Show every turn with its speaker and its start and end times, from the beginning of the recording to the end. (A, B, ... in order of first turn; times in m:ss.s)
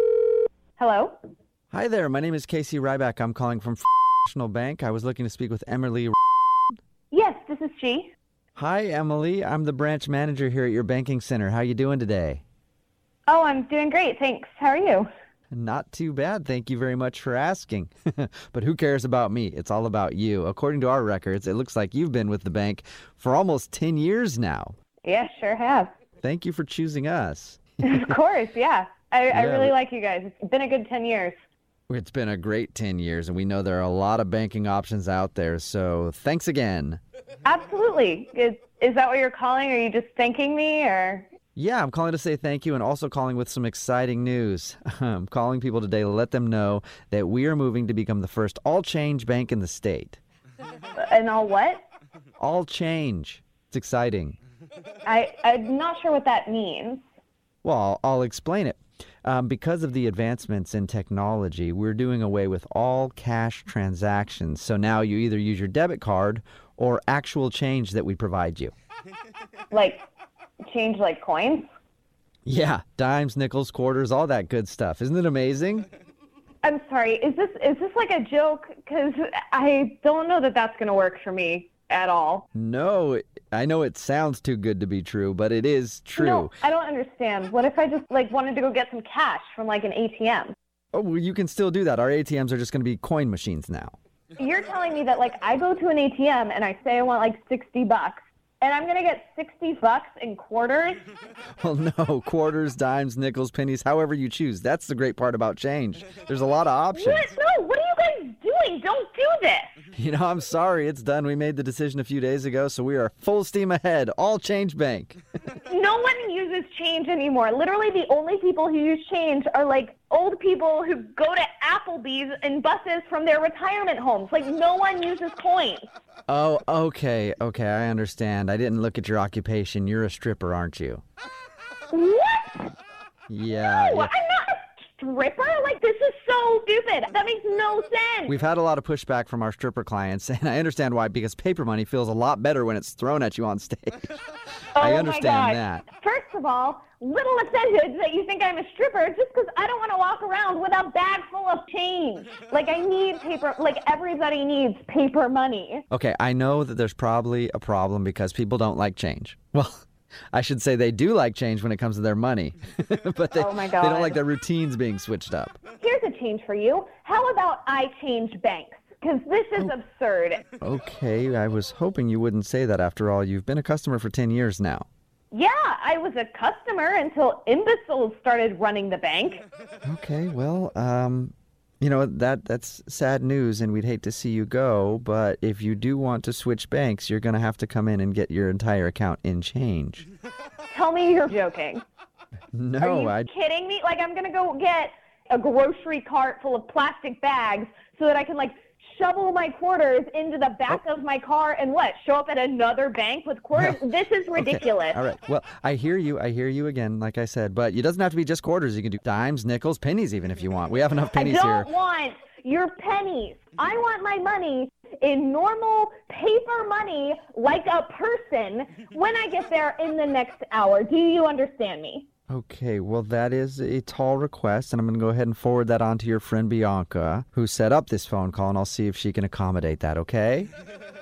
0:00.8-0:01.2 A
0:01.7-0:06.2 B
0:07.1-0:08.1 A
0:08.6-0:12.4 B
0:13.3-0:15.1 A
0:15.5-0:24.8 B
0:25.0-0:25.9 A
0:26.2-0:28.0 B
0:27.8-0:31.4 A
0:29.3-0:29.7 B
0:31.9-0:37.0 B
0:37.4-0:41.3 A
0:41.6-0:50.2 B
0:51.0-0:51.8 A
0:52.4-0:54.4 B
0:55.0-0:57.0 A
0:57.6-1:08.7 B
1:09.7-1:10.0 A
1:10.7-1:11.7 A
1:12.4-1:15.9 B
1:16.6-1:22.5 A
1:22.5-1:26.5 B
1:26.2-1:30.5 A
1:30.9-1:33.9 B
1:34.4-1:41.0 A
1:41.6-1:47.3 B
1:46.9-1:49.7 A
1:50.0-1:55.2 B
1:55.6-2:05.9 A
2:06.3-2:11.0 B
2:11.9-2:12.7 A
2:13.3-2:14.1 B
2:13.5-2:18.3 A
2:18.3-2:24.2 B
2:24.7-2:35.8 A
2:24.8-2:25.8 B
2:35.9-2:45.6 B
2:43.3-2:44.2 A
2:45.8-2:50.4 A
2:50.6-2:54.9 B
2:55.3-2:59.4 A
2:59.8-3:10.0 B
3:10.7-3:11.8 A
3:12.5-3:13.3 B
3:12.8-3:25.0 A
3:23.5-3:31.7 B
3:31.1-3:42.1 A
3:42.3-3:50.5 B